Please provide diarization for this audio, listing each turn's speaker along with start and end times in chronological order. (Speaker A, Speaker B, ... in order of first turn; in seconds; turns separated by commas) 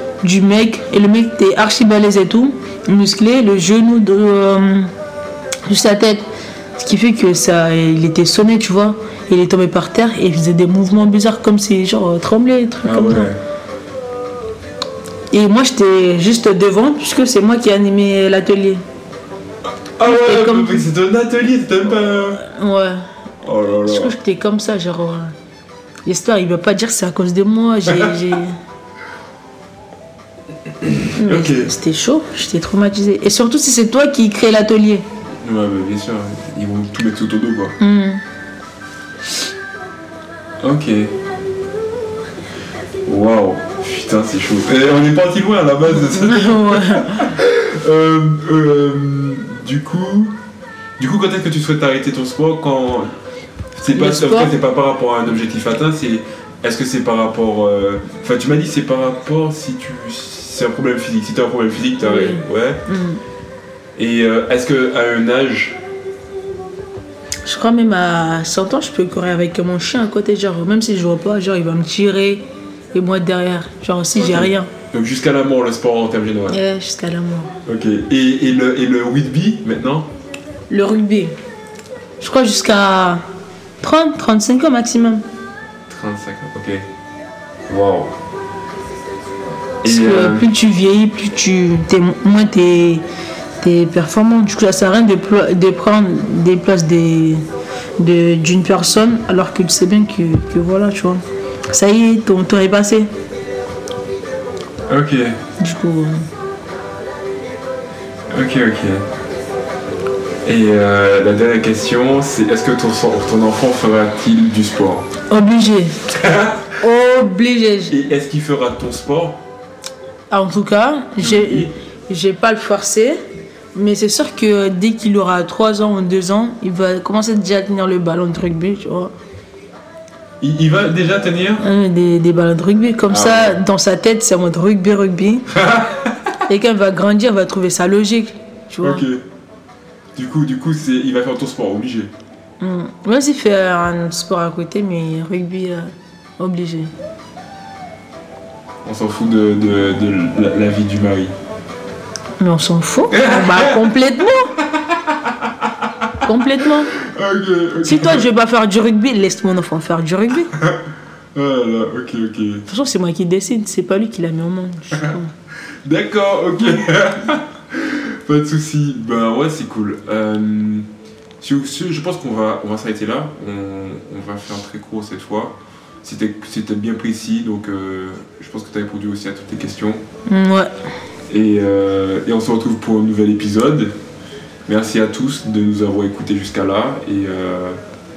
Speaker A: 0.2-4.9, Speaker A: 5.7-13.3, Speaker B: 12.8-13.4, Speaker A: 15.3-18.8, Speaker B: 20.0-22.4, Speaker A: 20.0-20.9, Speaker A: 22.4-23.0, Speaker B: 23.4-24.1, Speaker A: 23.8-25.3, Speaker A: 26.1-28.6, Speaker B: 30.8-31.7, Speaker A: 31.2-35.1, Speaker B: 35.4-37.8, Speaker A: 37.8-38.2, Speaker B: 40.6-41.1, Speaker B: 43.1-50.4, Speaker A: 45.9-47.4, Speaker B: 51.0-53.1, Speaker B: 53.8-62.8, Speaker A: 53.9-54.5, Speaker A: 62.0-63.2, Speaker B: 64.0-65.8, Speaker A: 67.5-74.7, Speaker B: 74.2-76.6, Speaker A: 76.5-77.5, Speaker B: 77.7-80.1, Speaker A: 80.7-81.3, Speaker A: 82.2-83.2, Speaker A: 83.8-85.2, Speaker B: 85.9-86.9, Speaker B: 87.7-88.1, Speaker B: 89.8-90.5, Speaker A: 89.8-93.0, Speaker A: 93.6-97.4, Speaker A: 98.0-103.1, Speaker B: 104.9-105.4, Speaker A: 105.6-106.3, Speaker B: 108.3-109.0, Speaker B: 110.5-115.1, Speaker A: 115.3-116.0, Speaker B: 116.1-116.7, Speaker A: 116.8-118.0, Speaker B: 117.9-119.4, Speaker A: 120.3-123.2, Speaker B: 121.2-121.7, Speaker A: 123.7-129.1, Speaker B: 130.4-131.6, Speaker A: 131.6-135.5, Speaker B: 133.1-133.6, Speaker B: 135.5-136.1, Speaker A: 136.5-139.0, Speaker B: 138.8-139.2, Speaker B: 140.2-142.1, Speaker A: 142.6-146.9, Speaker B: 148.8-151.3, Speaker A: 152.4-154.6, Speaker B: 153.1-153.8, Speaker A: 156.2-156.9, Speaker B: 157.0-158.3, Speaker A: 157.8-160.5, Speaker B: 160.5-160.8, Speaker B: 161.3-162.7, Speaker A: 162.7-165.3, Speaker B: 165.8-170.9, Speaker B: 171.4-180.0, Speaker A: 180.3-180.7, Speaker B: 181.3-183.9, Speaker B: 184.7-187.8